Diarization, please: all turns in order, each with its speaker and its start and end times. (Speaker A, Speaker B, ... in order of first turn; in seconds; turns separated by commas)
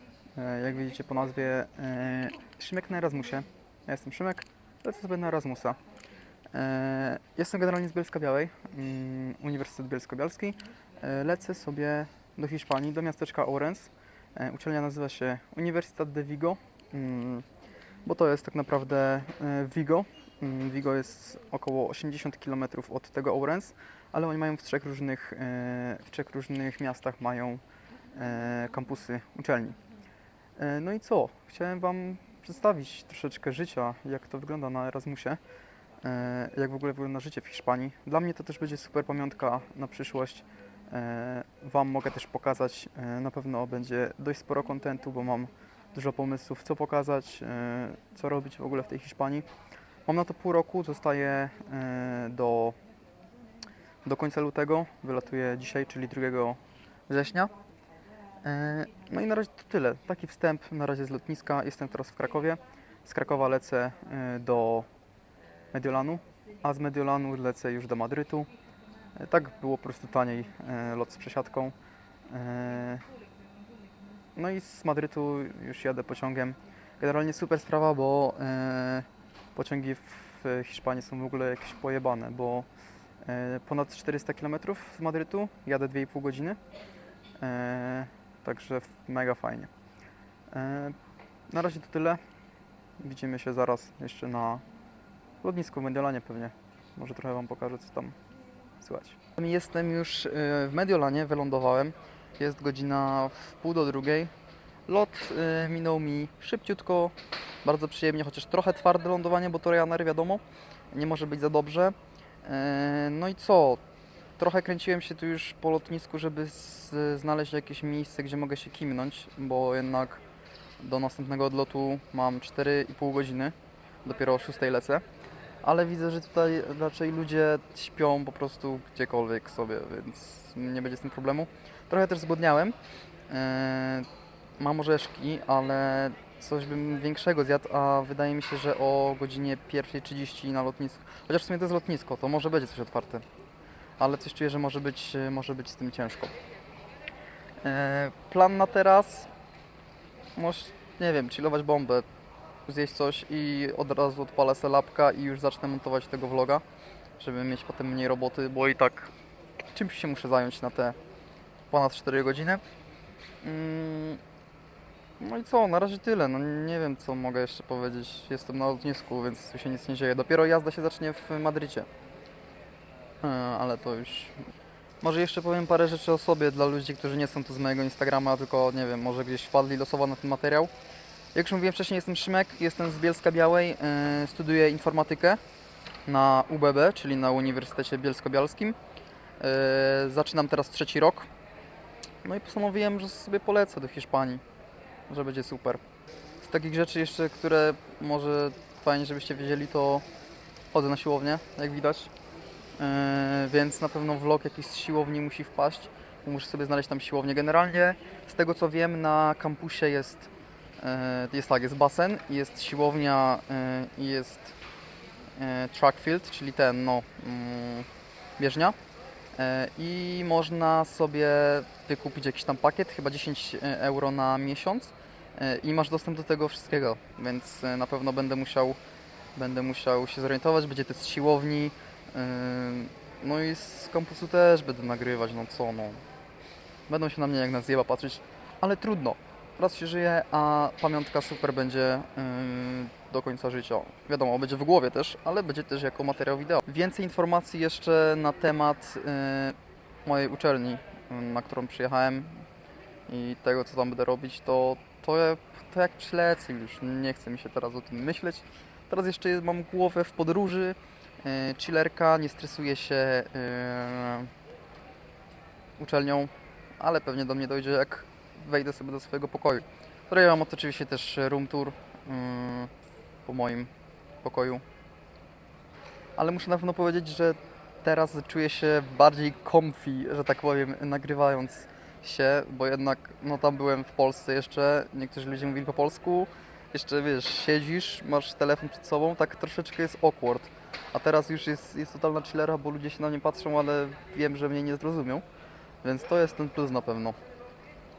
Speaker A: 0.3-5.8, Speaker A: 6.5-17.5, Speaker A: 18.1-27.6, Speaker A: 28.1-29.8, Speaker A: 30.6-35.4, Speaker A: 36.0-49.5, Speaker A: 50.1-52.8, Speaker A: 54.0-57.5, Speaker A: 58.4-64.9, Speaker A: 65.7-68.5, Speaker A: 69.2-71.7, Speaker A: 72.3-73.0, Speaker A: 74.3-82.7, Speaker A: 83.2-86.6, Speaker A: 87.4-89.7, Speaker A: 90.5-91.0, Speaker A: 91.5-92.2, Speaker A: 93.0-94.6, Speaker A: 95.4-98.2, Speaker A: 98.8-104.3, Speaker A: 104.9-113.8, Speaker A: 114.4-120.2, Speaker A: 120.8-125.0, Speaker A: 125.6-132.8, Speaker A: 133.3-143.2, Speaker A: 144.0-146.4, Speaker A: 147.6-149.3, Speaker A: 150.4-152.1, Speaker A: 152.7-156.6, Speaker A: 157.2-159.1, Speaker A: 159.7-161.0, Speaker A: 161.7-162.6, Speaker A: 163.4-164.2, Speaker A: 165.2-171.9, Speaker A: 173.2-174.4, Speaker A: 175.0-180.7, Speaker A: 181.3-185.4, Speaker A: 186.1-188.8, Speaker A: 189.4-191.3, Speaker A: 192.2-194.4, Speaker A: 195.1-195.8, Speaker A: 196.4-200.0, Speaker A: 200.7-202.1, Speaker A: 202.8-214.6, Speaker A: 215.4-218.8, Speaker A: 219.3-228.8, Speaker A: 229.3-236.0, Speaker A: 236.9-252.5, Speaker A: 253.1-264.3, Speaker A: 265.8-272.7, Speaker A: 273.2-273.7, Speaker A: 274.2-274.6, Speaker A: 276.2-295.2, Speaker A: 295.8-297.2